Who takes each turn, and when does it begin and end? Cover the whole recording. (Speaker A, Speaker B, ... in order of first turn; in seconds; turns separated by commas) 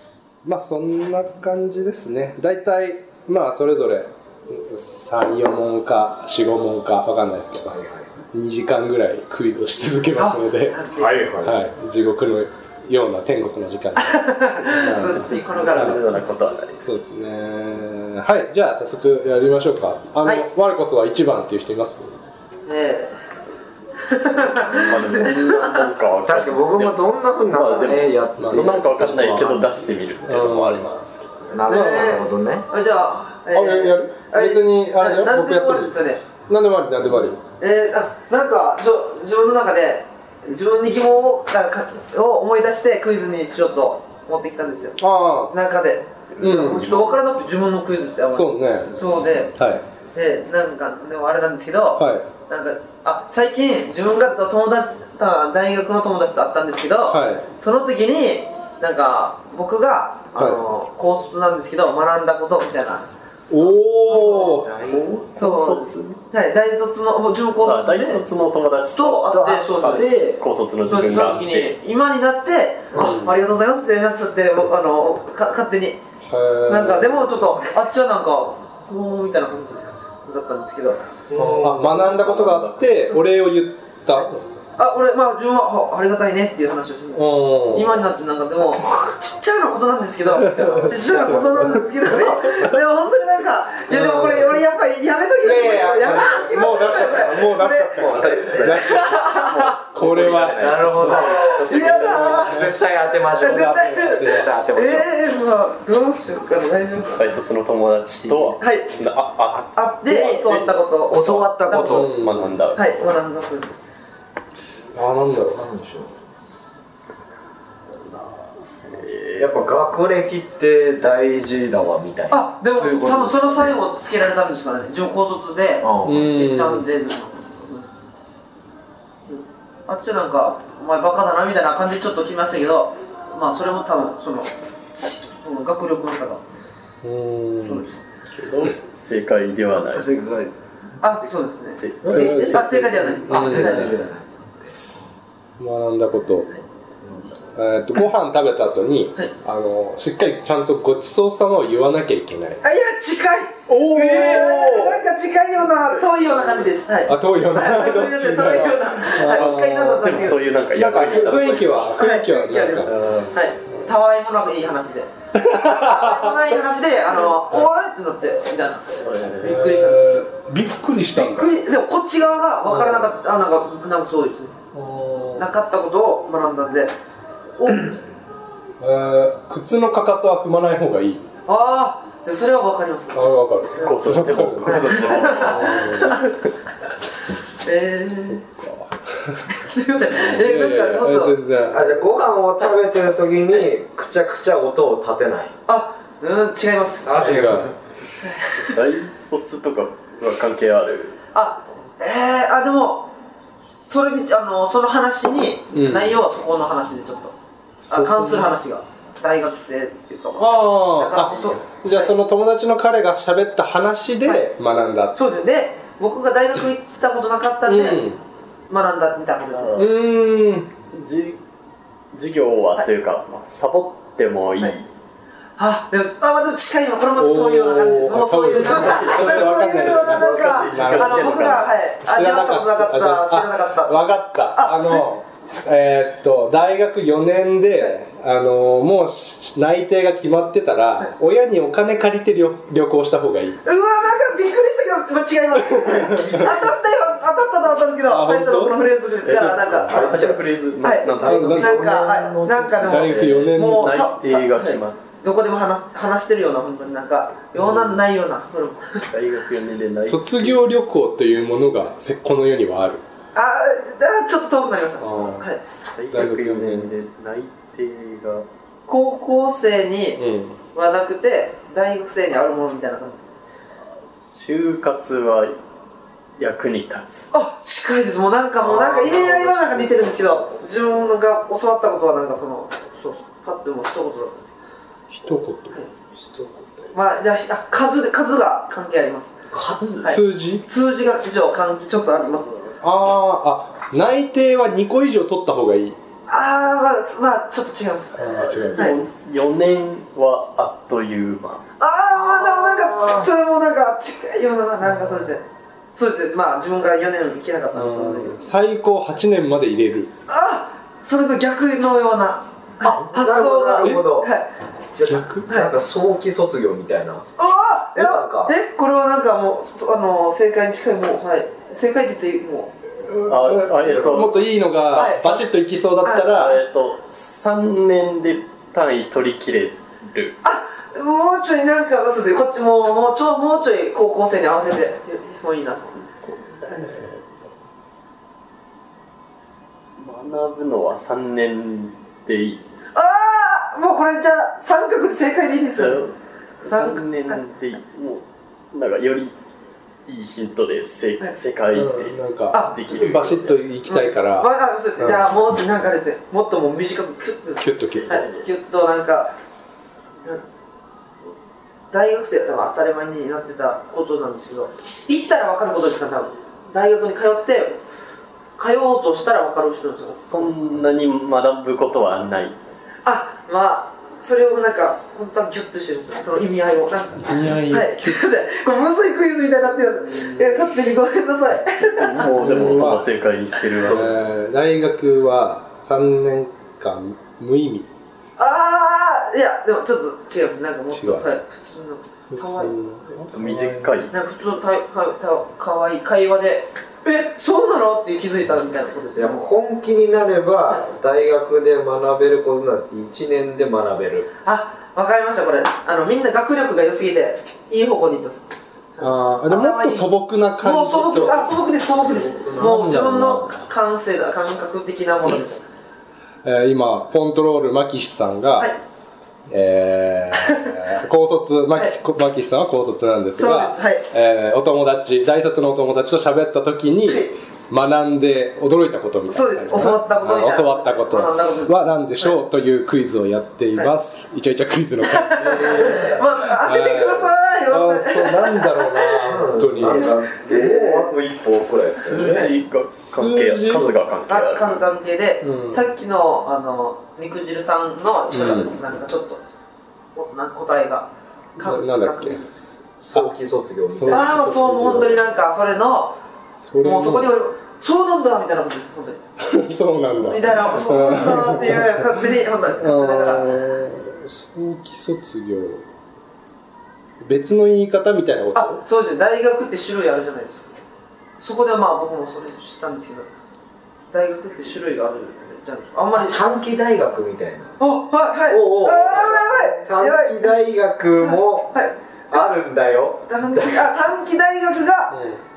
Speaker A: 0.4-10.8, Speaker B: 7.7-8.0, Speaker C: 10.2-11.2, Speaker B: 10.9-11.6, Speaker A: 11.3-16.0, Speaker C: 14.0-16.0, Speaker D: 15.1-16.8, Speaker A: 16.8-22.2, Speaker C: 22.7-23.2, Speaker C: 24.0-25.8, Speaker D: 24.4-31.5, Speaker B: 26.2-29.6, Speaker A: 28.4-29.5, Speaker A: 30.2-30.9, Speaker B: 31.5-32.7, Speaker A: 31.7-32.2, Speaker C: 31.7-36.2, Speaker A: 33.5-37.4, Speaker C: 37.6-45.0, Speaker A: 45.0-45.5, Speaker C: 45.5-49.5, Speaker D: 46.2-47.3, Speaker A: 46.4-46.9, Speaker A: 48.3-49.9, Speaker C: 50.1-63.1, Speaker A: 52.0-52.3, Speaker A: 57.1-57.5, Speaker A: 60.4-60.6, Speaker A: 63.5-64.7, Speaker B: 64.1-65.4, Speaker C: 64.1-64.6, Speaker D: 64.8-66.2, Speaker C: 65.4-68.3, Speaker D: 67.6-71.8, Speaker C: 68.9-70.2, Speaker B: 69.3-70.4, Speaker C: 70.9-76.0, Speaker A: 73.0-73.3, Speaker A: 76.3-77.2, Speaker C: 76.7-81.0, Speaker B: 81.3-82.0, Speaker A: 81.3-84.5, Speaker D: 81.7-83.0, Speaker C: 84.8-99.8, Speaker A: 87.2-88.0, Speaker A: 90.6-92.7, Speaker B: 90.8-92.0, Speaker A: 93.9-94.6, Speaker A: 95.4-99.2, Speaker D: 98.0-102.7, Speaker A: 99.9-101.3, Speaker B: 100.2-105.1, Speaker C: 101.2-107.4, Speaker A: 102.2-104.6, Speaker D: 107.2-113.1, Speaker B: 108.2-108.5, Speaker C: 108.6-109.0, Speaker C: 109.7-112.0, Speaker B: 110.1-110.5, Speaker B: 111.1-112.2, Speaker A: 111.9-112.5, Speaker C: 112.8-113.8, Speaker A: 114.9-115.7, Speaker B: 115.5-116.1, Speaker D: 118.1-119.8, Speaker B: 119.4-123.7, Speaker C: 122.3-127.9, Speaker B: 125.8-126.3, Speaker A: 126.0-126.9, Speaker C: 129.3-136.4, Speaker A: 137.0-137.9, Speaker D: 137.7-140.2, Speaker B: 139.8-140.5, Speaker C: 141.0-141.8, Speaker D: 141.8-142.5, Speaker A: 142.0-144.0, Speaker B: 142.0-144.3, Speaker C: 142.4-144.0, Speaker A: 145.6-146.5, Speaker A: 147.5-152.6, Speaker C: 152.6-160.4, Speaker A: 153.7-155.0, Speaker D: 155.6-156.7, Speaker A: 157.1-162.9, Speaker D: 159.2-162.0, Speaker C: 162.0-170.3, Speaker D: 162.8-163.4, Speaker A: 165.3-166.6, Speaker D: 169.0-169.6, Speaker A: 169.4-171.5, Speaker C: 171.1-174.6, Speaker A: 172.6-173.1, Speaker A: 174.7-175.5, Speaker C: 175.3-176.9, Speaker C: 177.6-178.1, Speaker A: 178.8-181.3, Speaker C: 181.5-184.0, Speaker A: 183.1-186.2, Speaker D: 183.8-186.3, Speaker C: 184.7-186.2, Speaker C: 187.6-188.4, Speaker A: 188.1-192.1, Speaker C: 189.6-191.4, Speaker B: 191.7-195.5, Speaker C: 195.7-197.4, Speaker B: 197.1-197.7, Speaker A: 197.1-197.7, Speaker C: 198.2-198.8, Speaker D: 198.6-201.2, Speaker C: 201.3-203.1, Speaker C: 203.9-207.3, Speaker A: 205.7-206.2, Speaker A: 207.9-208.6, Speaker C: 207.9-212.2, Speaker A: 210.4-215.2, Speaker C: 215.1-218.1, Speaker A: 217.7-218.2, Speaker C: 218.7-219.9, Speaker D: 219.5-219.9, Speaker A: 219.8-220.7, Speaker D: 220.9-221.4, Speaker D: 222.1-224.9, Speaker C: 225.6-235.1, Speaker A: 227.2-243.6, Speaker D: 228.6-231.7, Speaker C: 243.6-259.1, Speaker A: 246.0-246.5, Speaker A: 248.1-248.9, Speaker D: 249.2-251.8, Speaker B: 249.9-250.5, Speaker B: 251.1-253.0, Speaker A: 251.2-251.8, Speaker D: 252.8-255.0, Speaker A: 252.8-254.0, Speaker A: 257.6-258.0, Speaker D: 259.1-260.6, Speaker A: 260.0-263.0, Speaker C: 263.3-265.6, Speaker A: 265.0-265.5, Speaker D: 266.0-268.5, Speaker A: 266.1-266.9, Speaker C: 268.9-270.2, Speaker A: 270.2-270.6, Speaker C: 270.7-273.3, Speaker D: 274.1-275.6, Speaker D: 276.4-277.3, Speaker C: 277.3-284.5, Speaker D: 278.6-280.6, Speaker A: 285.1-285.8, Speaker B: 286.1-287.0, Speaker C: 286.9-289.4, Speaker B: 289.5-290.1, Speaker D: 289.7-290.1, Speaker C: 290.0-292.6, Speaker A: 290.1-290.6, Speaker A: 292.8-296.0, Speaker C: 296.3-299.0, Speaker A: 298.2-299.0, Speaker D: 298.3-301.6, Speaker C: 301.8-305.4, Speaker B: 302.2-303.3, Speaker C: 306.0-308.4, Speaker A: 307.7-310.1, Speaker C: 310.3-314.5, Speaker B: 312.8-314.3, Speaker A: 313.8-314.1, Speaker B: 315.0-317.3, Speaker A: 315.0-315.5, Speaker C: 315.5-315.7, Speaker C: 317.4-322.7, Speaker B: 317.9-318.6, Speaker A: 323.0-326.6, Speaker D: 323.3-325.5, Speaker B: 323.8-324.4, Speaker C: 324.9-325.3, Speaker C: 326.0-326.4, Speaker D: 326.3-330.4, Speaker C: 330.4-336.1, Speaker D: 336.2-337.2, Speaker D: 340.0-342.7, Speaker C: 342.9-346.0, Speaker D: 345.7-349.4, Speaker C: 346.6-347.4, Speaker D: 350.1-353.7, Speaker A: 351.7-355.3, Speaker C: 352.5-352.8, Speaker C: 353.9-359.3, Speaker A: 357.6-358.3, Speaker D: 358.1-358.4, Speaker C: 361.9-367.8, Speaker C: 368.6-370.5, Speaker D: 370.0-372.6, Speaker C: 373.1-382.6, Speaker A: 377.2-378.2, Speaker D: 381.8-384.2, Speaker A: 382.4-383.1, Speaker A: 383.9-387.9, Speaker C: 388.4-392.8, Speaker A: 390.9-391.3, Speaker A: 392.3-394.1, Speaker D: 393.2-394.1, Speaker C: 394.1-399.5, Speaker B: 399.1-404.3, Speaker C: 404.4-408.4, Speaker C: 409.0-410.1, Speaker A: 409.0-411.6, Speaker C: 410.6-415.6, Speaker B: 411.9-412.8, Speaker A: 412.6-413.6, Speaker A: 416.4-418.7, Speaker A: 419.5-436.0, Speaker C: 423.4-424.1, Speaker C: 427.1-427.3, Speaker C: 429.3-432.4, Speaker C: 435.0-439.3, Speaker B: 435.6-436.1, Speaker A: 436.6-440.2, Speaker B: 439.3-442.6, Speaker C: 439.9-441.1, Speaker D: 441.8-444.8, Speaker A: 443.0-443.9, Speaker C: 444.3-449.4, Speaker A: 445.4-445.9, Speaker A: 448.3-448.7, Speaker C: 450.1-452.5, Speaker A: 451.6-453.3, Speaker B: 453.0-454.4, Speaker A: 453.9-455.2, Speaker C: 454.1-456.2, Speaker A: 456.6-457.3, Speaker C: 456.8-459.2, Speaker A: 459.4-462.0, Speaker C: 460.2-463.6, Speaker A: 462.8-465.8, Speaker A: 467.2-468.8, Speaker C: 468.5-470.7, Speaker C: 471.4-473.3, Speaker C: 474.1-476.4, Speaker B: 476.1-477.8, Speaker C: 477.8-480.6, Speaker B: 478.5-481.8, Speaker C: 481.2-482.6, Speaker B: 482.3-483.9, Speaker C: 483.3-485.1, Speaker A: 485.1-485.4